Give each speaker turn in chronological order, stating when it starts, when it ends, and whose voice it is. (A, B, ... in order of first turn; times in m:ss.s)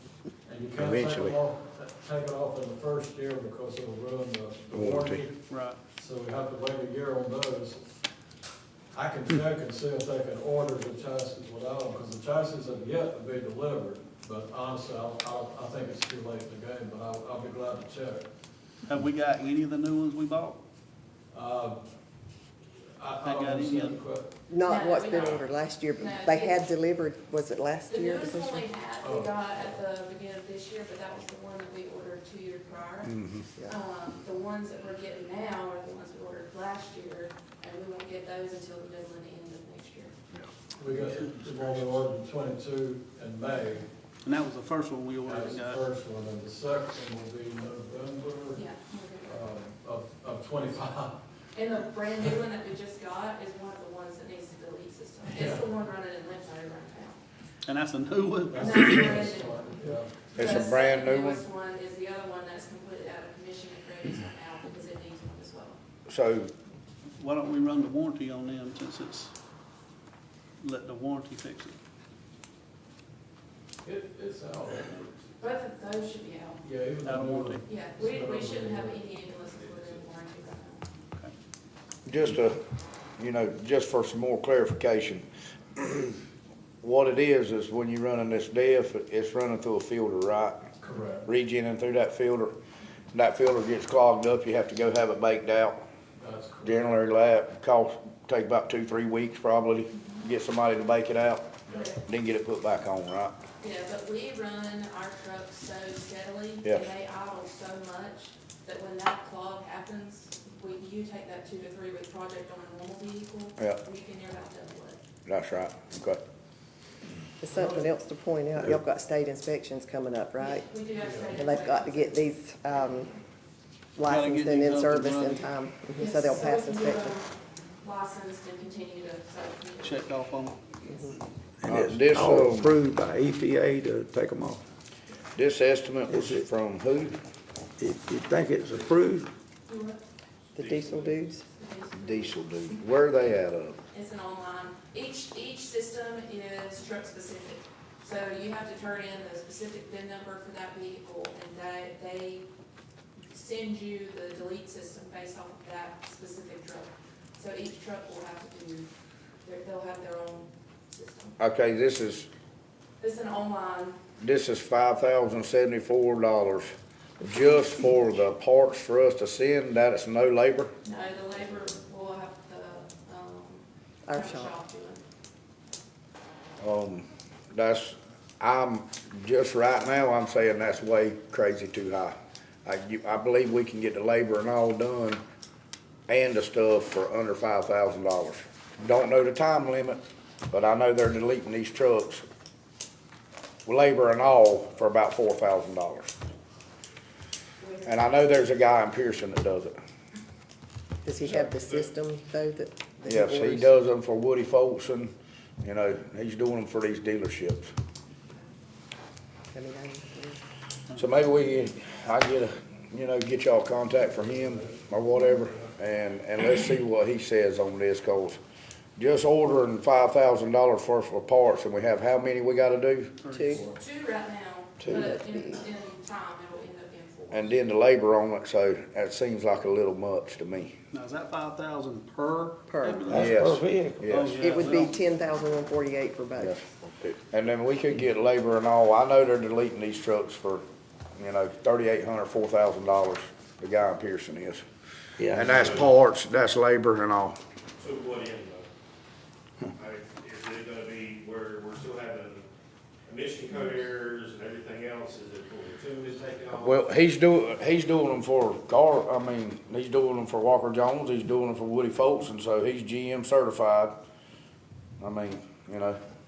0:00.4-0:05.4 A
0:00.8-0:01.4 B
0:04.7-0:05.2 B
0:05.5-0:05.8 C
0:06.0-0:07.8 A
0:08.9-0:18.3 A
0:18.9-0:20.6 C
0:21.3-0:21.9 A
0:23.0-0:24.4 A
0:23.2-0:24.0 C
0:24.5-0:28.7 D
0:24.6-0:25.4 E
0:26.0-0:26.6 E
0:27.9-0:40.2 E
0:29.0-0:29.4 A
0:33.0-0:33.5 B
0:40.8-0:43.9 A
0:40.9-0:41.8 C
0:44.2-0:45.8 C
0:45.3-0:48.6 A
0:48.6-0:49.4 E
0:49.2-0:51.2 A
0:51.5-0:57.2 E
0:55.3-0:55.6 A
0:57.7-0:59.0 C
0:58.5-1:00.1 A
0:58.6-1:05.8 E
1:00.4-1:01.4 B
1:06.1-1:06.5 B
1:07.1-1:09.3 C
1:10.6-1:11.8 C
1:13.8-1:15.2 A
1:15.4-1:16.6 E
1:16.6-1:19.0 A
1:17.0-1:17.6 C
1:17.6-1:20.8 E
1:22.1-1:22.6 B
1:23.2-1:25.2 B
1:25.8-1:26.2 B
1:26.8-1:30.7 B
1:30.8-1:31.3 A
1:31.3-1:32.5 B
1:33.1-1:35.8 B
1:36.2-1:37.0 A
1:36.6-1:41.6 B
1:41.7-1:42.0 E
1:42.1-1:43.4 B
1:43.6-1:55.0 E
1:55.3-1:56.2 B
1:57.4-2:00.7 D
1:57.5-1:57.8 A
2:00.4-2:03.1 E
2:01.0-2:01.5 A
2:01.3-2:03.2 D
2:04.0-2:07.2 D
2:04.0-2:05.5 C
2:06.0-2:10.2 E
2:09.8-2:10.6 C
2:10.8-2:11.2 D
2:11.6-2:14.6 F
2:11.7-2:12.8 B
2:15.4-2:17.2 B
2:16.1-2:16.5 F
2:17.8-2:19.3 F
2:19.7-2:20.0 E
2:20.6-2:21.4 D
2:20.6-2:21.2 G
2:21.6-2:22.4 E
2:22.0-2:23.8 B
2:23.9-2:32.5 E
2:33.3-2:38.9 E
2:39.4-2:41.4 E
2:41.4-2:42.3 B
2:43.0-2:44.0 E
2:44.2-2:50.7 B
2:50.8-2:55.0 E
2:54.1-2:54.5 D
2:56.6-3:05.2 B
3:06.1-3:10.0 B
3:10.5-3:12.2 B
3:13.7-3:16.1 B
3:17.6-3:17.9 E
3:17.8-3:19.8 B
3:21.0-3:23.7 D
3:21.6-3:21.9 G
3:23.1-3:27.7 B
3:29.5-3:30.4 D
3:31.0-3:38.4 B
3:34.1-3:34.9 A
3:35.4-3:35.7 A
3:39.0-3:43.2 B
3:43.2-3:43.6 C
3:43.3-3:43.6 D
3:43.8-3:47.6 E
3:44.8-3:45.1 F
3:45.1-3:45.6 D
3:47.3-3:50.7 B
3:50.9-3:53.2 C
3:52.7-3:53.4 D
3:53.0-3:54.2 F
3:53.1-3:54.6 B
3:54.1-3:55.0 C
3:54.4-3:56.6 D
3:56.4-4:00.6 B
4:01.2-4:04.6 B
4:05.2-4:05.7 F
4:05.3-4:07.4 B
4:07.8-4:08.7 G
4:09.8-4:12.5 G
4:13.1-4:16.8 G
4:16.5-4:24.0 B
4:25.0-4:26.0 B